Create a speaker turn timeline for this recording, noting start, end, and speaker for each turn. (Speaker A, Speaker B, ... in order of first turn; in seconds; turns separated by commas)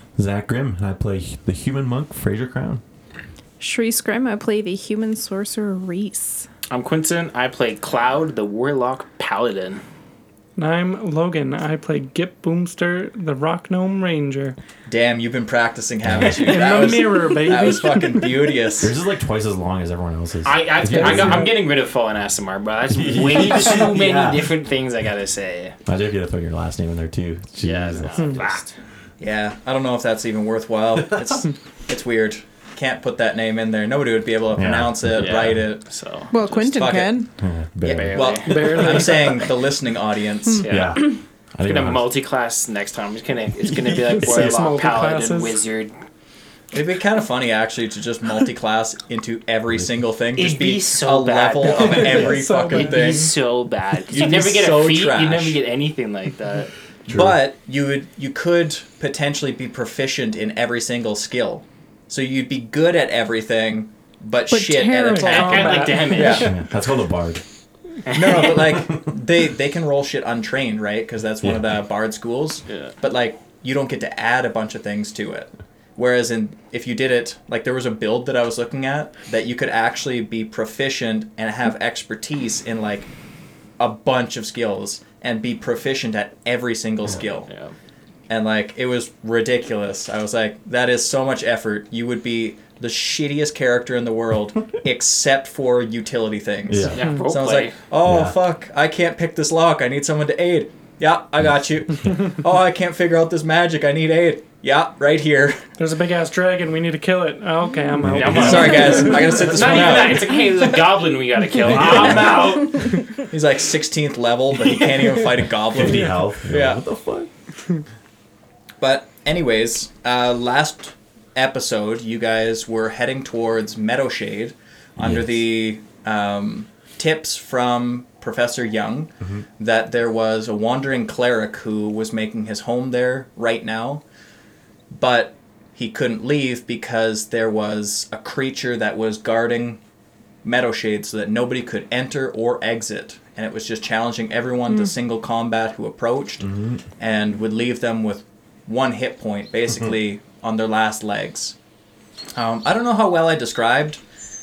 Speaker A: 0.1-2.8, Speaker B: 3.6-6.5, Speaker C: 6.7-9.8, Speaker D: 10.6-14.6, Speaker E: 14.9-18.9, Speaker A: 16.0-16.8, Speaker D: 16.4-18.5, Speaker A: 18.8-21.6, Speaker C: 20.4-25.8, Speaker D: 20.9-21.5, Speaker A: 22.9-24.5, Speaker A: 25.9-28.4, Speaker C: 27.6-28.7, Speaker E: 29.2-37.2, Speaker A: 34.5-35.6, Speaker C: 35.1-36.3, Speaker B: 36.3-37.3, Speaker A: 37.4-38.5, Speaker E: 37.8-40.6, Speaker C: 37.9-39.1, Speaker D: 38.5-39.4, Speaker C: 40.6-45.9, Speaker A: 40.6-42.1, Speaker A: 43.6-44.7, Speaker D: 44.1-45.6, Speaker E: 46.7-53.3, Speaker A: 49.7-50.0, Speaker C: 50.4-56.7, Speaker D: 51.8-53.3, Speaker E: 54.1-55.6, Speaker A: 57.0-57.4, Speaker E: 57.1-66.5, Speaker B: 64.5-66.0, Speaker D: 65.1-66.6, Speaker C: 65.2-66.5, Speaker A: 66.3-67.4, Speaker C: 68.1-68.5, Speaker E: 68.1-83.1, Speaker A: 68.4-69.1, Speaker A: 71.4-71.8, Speaker C: 72.7-72.9, Speaker E: 83.8-87.5, Speaker C: 87.5-87.7, Speaker E: 88.3-105.7, Speaker A: 96.7-97.0, Speaker C: 96.9-97.7, Speaker D: 97.0-97.3, Speaker A: 98.0-98.4, Speaker D: 105.8-109.3, Speaker A: 108.0-109.8, Speaker C: 108.1-113.0, Speaker E: 108.2-110.4, Speaker A: 111.6-112.7, Speaker E: 113.3-116.8, Speaker A: 115.7-117.3, Speaker E: 118.8-134.0, Speaker A: 125.0-125.4, Speaker E: 134.9-139.8, Speaker E: 140.4-151.6, Speaker A: 146.4-146.8, Speaker E: 152.3-154.0